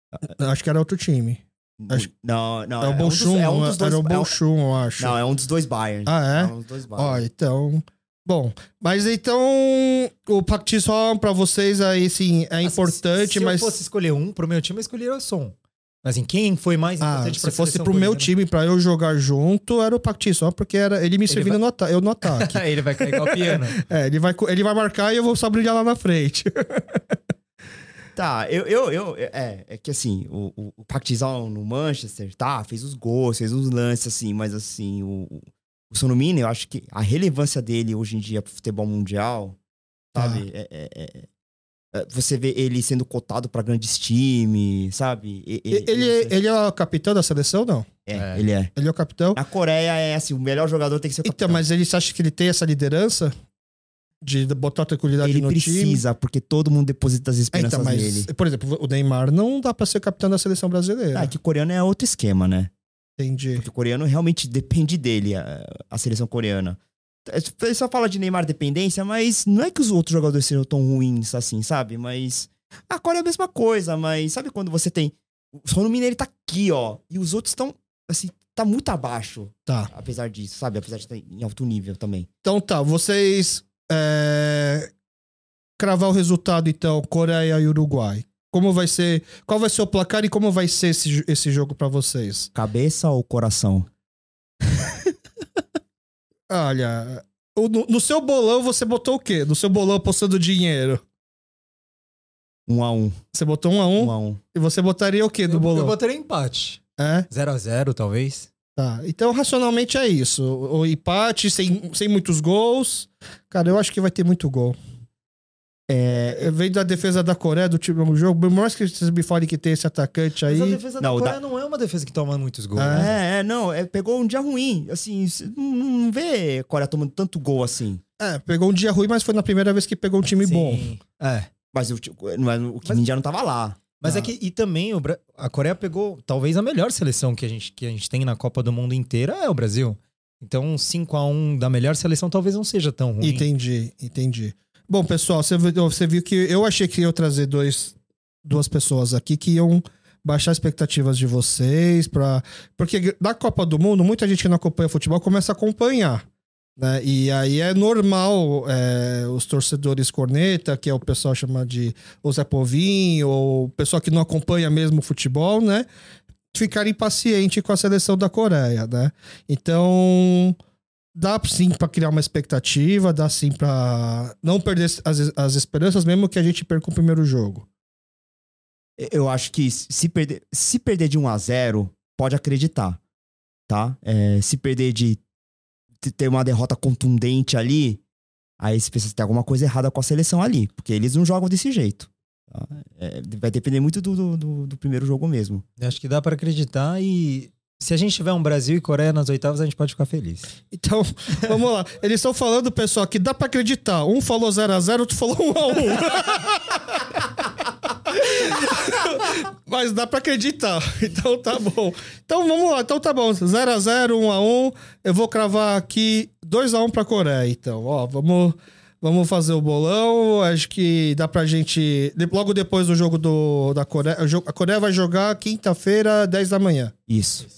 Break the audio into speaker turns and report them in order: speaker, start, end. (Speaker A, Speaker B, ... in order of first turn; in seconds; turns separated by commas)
Speaker A: 0.3-2.1, Speaker B: 1.8-4.3, Speaker A: 2.8-5.2, Speaker B: 5.0-7.2, Speaker A: 6.1-13.7, Speaker C: 12.6-18.3, Speaker A: 17.0-27.0, Speaker C: 21.3-21.6, Speaker C: 22.2-23.8, Speaker B: 28.2-39.6, Speaker B: 40.1-41.3, Speaker A: 40.2-40.4, Speaker B: 41.9-46.4, Speaker A: 45.7-47.9, Speaker B: 48.1-48.7, Speaker C: 48.1-48.5, Speaker A: 48.8-49.4, Speaker B: 49.3-51.6, Speaker A: 51.2-53.3, Speaker A: 54.2-56.0, Speaker B: 55.2-58.3, Speaker A: 57.5-61.3, Speaker B: 61.1-62.7, Speaker A: 63.2-63.6, Speaker B: 63.6-82.3, Speaker A: 82.4-84.9, Speaker A: 85.8-92.5, Speaker B: 92.5-93.9, Speaker A: 96.5-101.0, Speaker B: 102.7-103.2, Speaker A: 103.3-106.0, Speaker B: 104.0-104.4, Speaker C: 105.5-108.5, Speaker A: 107.0-107.3, Speaker A: 108.8-114.8, Speaker B: 115.9-116.5, Speaker A: 116.3-120.8, Speaker C: 120.5-123.1, Speaker B: 121.0-121.4, Speaker A: 122.8-123.1, Speaker B: 122.9-128.0, Speaker A: 128.2-130.8, Speaker C: 130.4-131.5, Speaker B: 131.7-133.8, Speaker C: 134.0-143.5, Speaker A: 134.0-134.3, Speaker A: 143.2-156.2, Speaker A: 156.8-165.9, Speaker A: 166.5-170.6, Speaker A: 171.2-177.7, Speaker B: 179.0-183.0, Speaker B: 183.7-185.2, Speaker B: 186.0-188.0, Speaker B: 188.6-195.7, Speaker C: 195.8-200.5, Speaker A: 200.7-207.4, Speaker A: 208.1-226.9, Speaker B: 227.1-227.5